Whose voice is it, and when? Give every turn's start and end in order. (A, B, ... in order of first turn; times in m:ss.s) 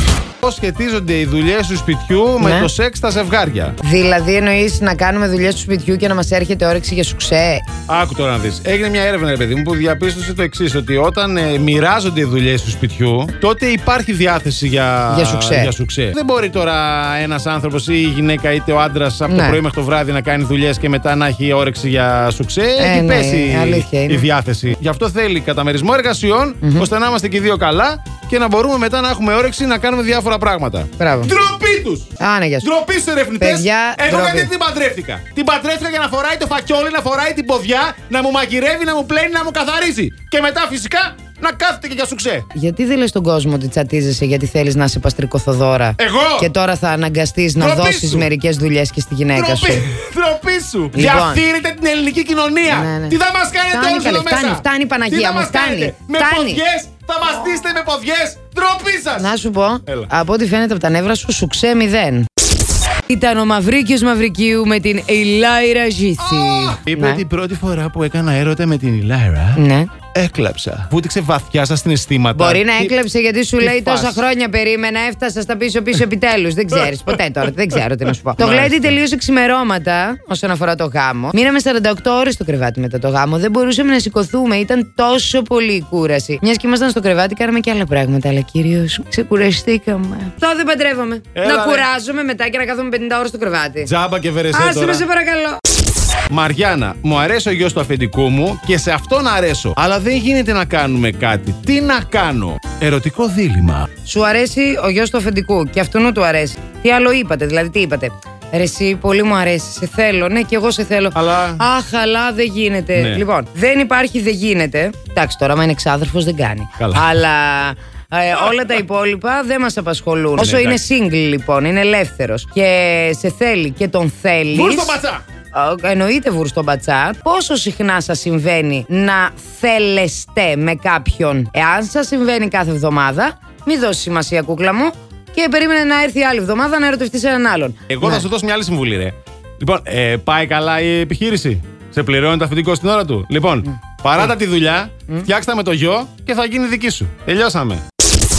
0:00.4-0:03.8 A
0:02.4-0:02.7 B
0:03.8-0:07.6 B
0:07.9-0:42.5 A
0:15.1-0:15.7 B
0:19.3-0:19.6 B
0:22.8-0:24.2 B
0:26.6-0:26.9 B
0:31.0-0:31.3 B
0:32.2-0:32.7 B
0:33.4-0:34.5 B
0:42.5-0:49.9 B
0:46.0-0:46.5 A
0:47.6-0:48.3 A
0:49.3-0:59.3 A
0:50.9-0:51.4 B
0:52.7-0:53.2 B
0:53.7-0:56.6 B
0:59.2-1:02.3 B
1:03.1-1:07.2 B
1:06.2-1:09.6 A
1:09.6-1:09.9 B
1:10.1-1:12.9 A
1:12.3-1:33.9 B
1:13.6-1:14.2 A
1:18.4-1:18.9 A
1:31.3-1:31.9 A
1:33.8-1:35.0 A
1:34.5-1:35.6 B
1:36.3-1:43.9 A
1:44.0-2:05.0 B
1:51.1-1:51.6 A
1:52.9-1:53.2 A
1:56.8-1:57.1 A
2:00.4-2:00.8 A
2:04.5-2:05.2 A
2:05.5-2:18.2 B
2:17.9-2:27.8 A